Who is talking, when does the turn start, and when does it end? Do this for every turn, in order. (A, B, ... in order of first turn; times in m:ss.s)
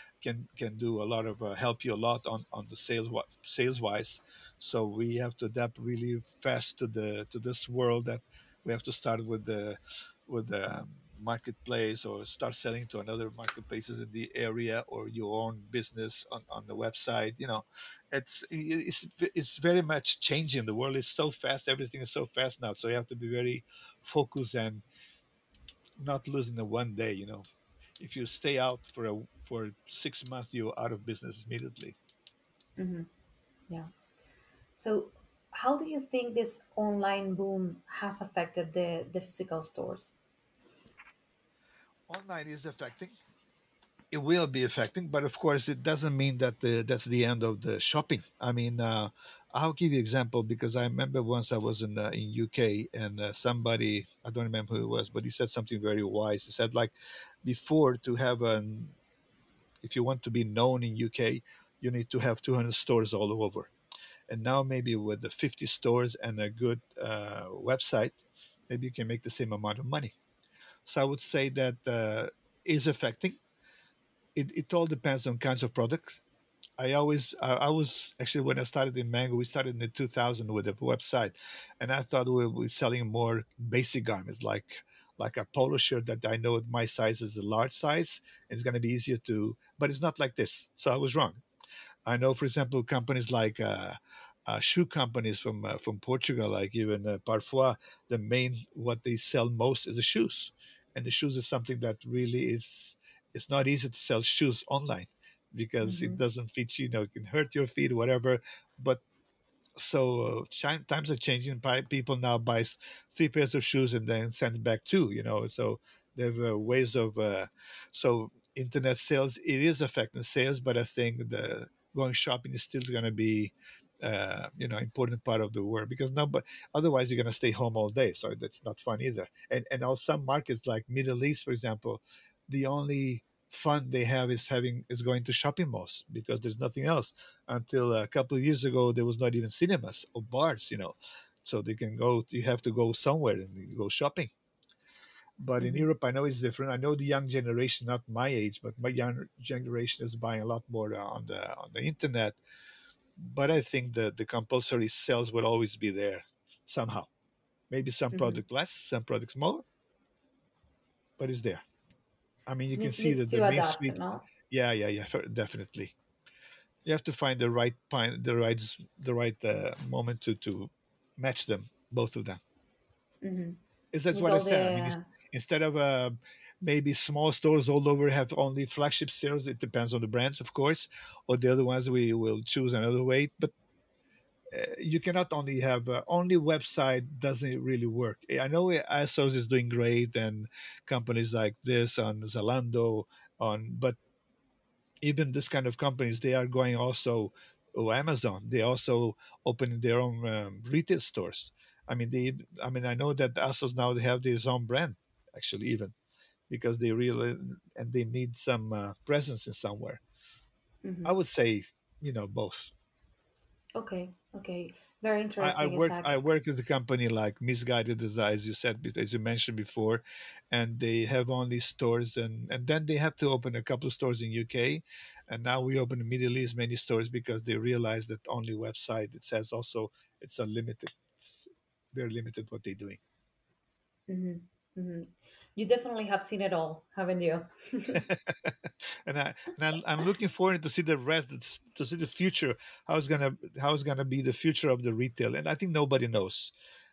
0:00.2-0:24.8 A
0:26.0-0:27.4 A
0:28.0-0:31.9 A
0:32.8-0:33.1 B
0:34.8-0:40.2 B
0:42.1-0:43.1 A
0:44.1-0:56.9 A
0:57.4-0:59.0 A
0:59.8-1:03.7 A
1:04.3-1:08.2 A
1:08.7-1:10.1 A
1:10.8-1:13.4 A
1:14.3-1:16.2 A
1:16.8-1:31.4 A
1:32.0-1:49.0 A
1:45.8-1:46.2 B
1:49.8-2:24.3 A
2:25.4-2:32.4 A
2:25.6-2:25.9 B
2:33.2-2:37.1 A
2:37.7-2:39.6 A
2:38.1-2:38.4 B
2:41.2-2:41.6 A
2:42.5-2:45.9 A
2:42.7-2:44.3 B
2:46.8-2:52.4 A
2:53.2-2:53.6 B
2:53.9-3:03.5 A
2:54.1-2:55.0 B
3:04.5-3:14.0 A
3:15.0-3:25.9 A
3:26.5-3:30.0 A
3:30.8-3:31.1 B
3:31.0-3:32.7 A
3:33.8-3:36.2 B
3:35.4-3:53.0 A
3:54.1-3:58.0 B
3:57.9-4:06.5 A